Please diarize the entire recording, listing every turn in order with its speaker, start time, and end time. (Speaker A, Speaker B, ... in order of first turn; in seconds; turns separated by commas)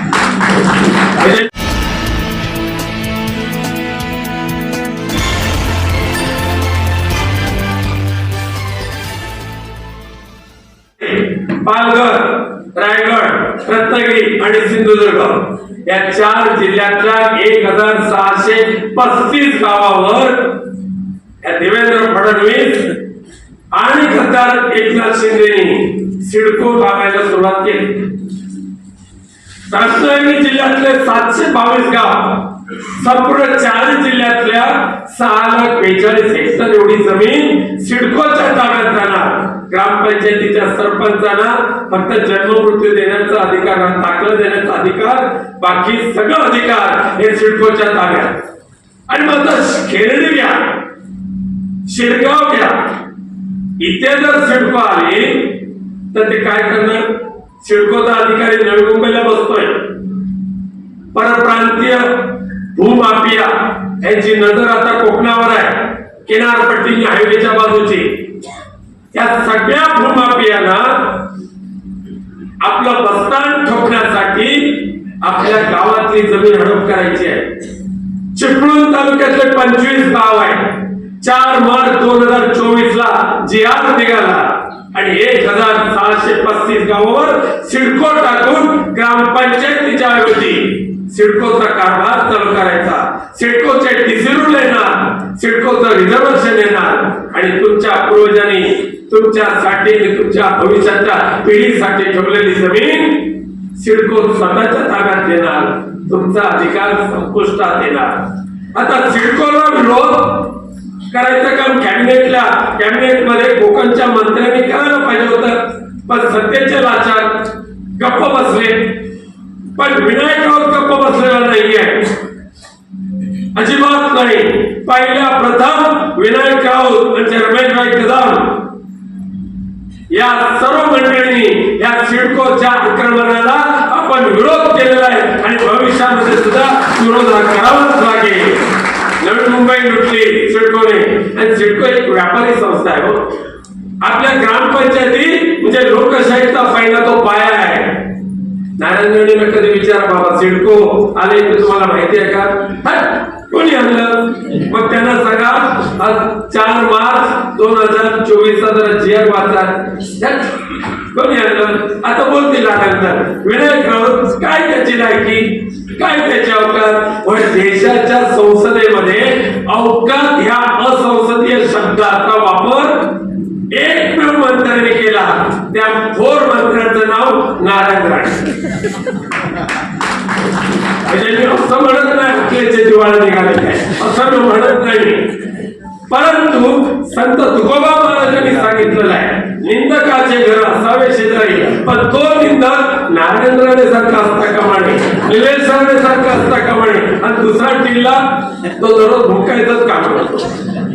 Speaker A: 1.2-1.4, Speaker A: 11.0-20.6, Speaker A: 21.4-23.0, Speaker A: 23.7-28.1, Speaker A: 29.7-48.4, Speaker A: 49.1-50.8, Speaker A: 51.9-52.9, Speaker A: 53.8-59.9, Speaker A: 61.1-68.3, Speaker A: 69.1-71.3, Speaker A: 72.6-77.5, Speaker A: 78.3-119.0, Speaker A: 119.8-122.2, Speaker A: 123.5-128.7, Speaker A: 130.1-143.3, Speaker A: 144.0-148.1, Speaker A: 148.8-173.2, Speaker A: 173.7-178.4, Speaker A: 181.0-185.4, Speaker A: 186.1-200.6